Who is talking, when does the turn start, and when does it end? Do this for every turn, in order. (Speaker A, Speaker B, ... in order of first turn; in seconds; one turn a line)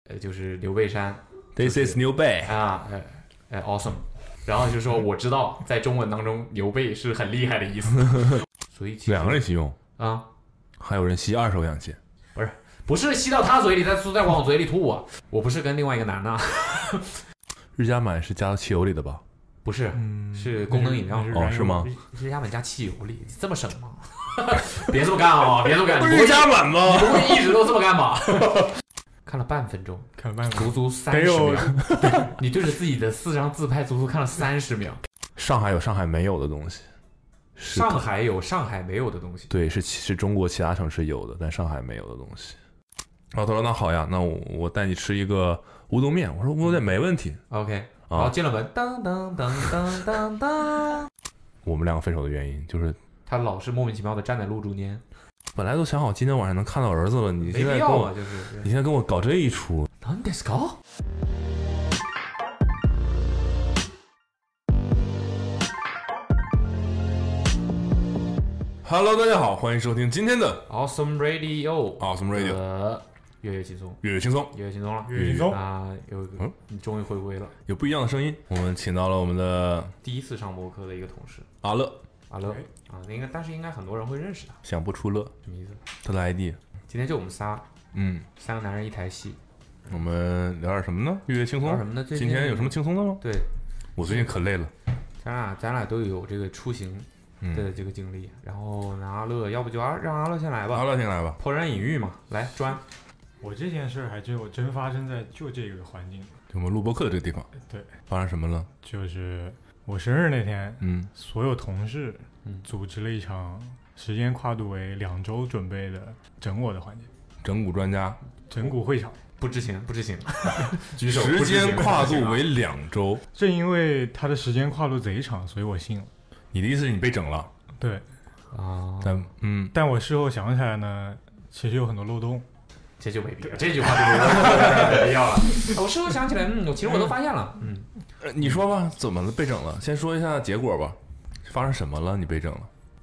Speaker A: 0.1-9.4
Speaker B: 1.6-2.5
Speaker B: 9.1-9.8
Speaker A: 10.0-10.3
Speaker B: 10.8-12.0
Speaker A: 12.3-17.2
Speaker B: 17.8-19.2
Speaker A: 19.6-28.7
Speaker C: 19.9-21.9
Speaker B: 21.3-21.9
Speaker B: 25.7-27.6
Speaker A: 29.2-35.0
Speaker C: 30.2-32.4
Speaker B: 35.4-36.9
Speaker B: 37.6-38.0
Speaker A: 37.6-39.5
Speaker B: 39.5-42.6
Speaker B: 43.3-47.4
Speaker A: 47.5-51.1
Speaker B: 48.1-48.3
Speaker B: 51.6-53.0
Speaker A: 53.3-55.0
Speaker B: 55.5-59.9
Speaker A: 57.5-58.7
Speaker A: 60.0-60.8
Speaker B: 68.8-70.7
Speaker A: 70.7-77.5
Speaker B: 72.0-72.6
Speaker B: 74.0-74.5
Speaker C: 75.1-75.6
Speaker B: 75.1-75.6
Speaker B: 77.7-79.9
Speaker A: 80.0-81.5
Speaker B: 81.6-82.0
Speaker A: 82.3-84.6
Speaker B: 84.6-85.3
Speaker A: 85.4-85.8
Speaker B: 86.0-86.6
Speaker A: 86.9-87.7
Speaker B: 87.9-88.3
Speaker A: 88.4-89.4
Speaker B: 89.9-93.2
Speaker A: 91.6-93.5
Speaker B: 94.0-94.7
Speaker A: 95.2-100.9
Speaker B: 100.7-101.4
Speaker A: 101.4-102.8
Speaker C: 103.4-106.4
Speaker B: 106.5-107.5
Speaker B: 108.1-108.7
Speaker C: 108.8-117.1
Speaker B: 110.8-111.1
Speaker B: 117.4-118.2
Speaker C: 118.5-119.2
Speaker A: 119.4-122.5
Speaker B: 121.0-123.2
Speaker C: 123.3-126.1
Speaker B: 126.5-127.5
Speaker C: 127.8-128.1
Speaker A: 128.5-129.2
Speaker B: 129.0-129.8
Speaker C: 129.7-132.4
Speaker A: 133.0-137.9
Speaker B: 138.2-142.7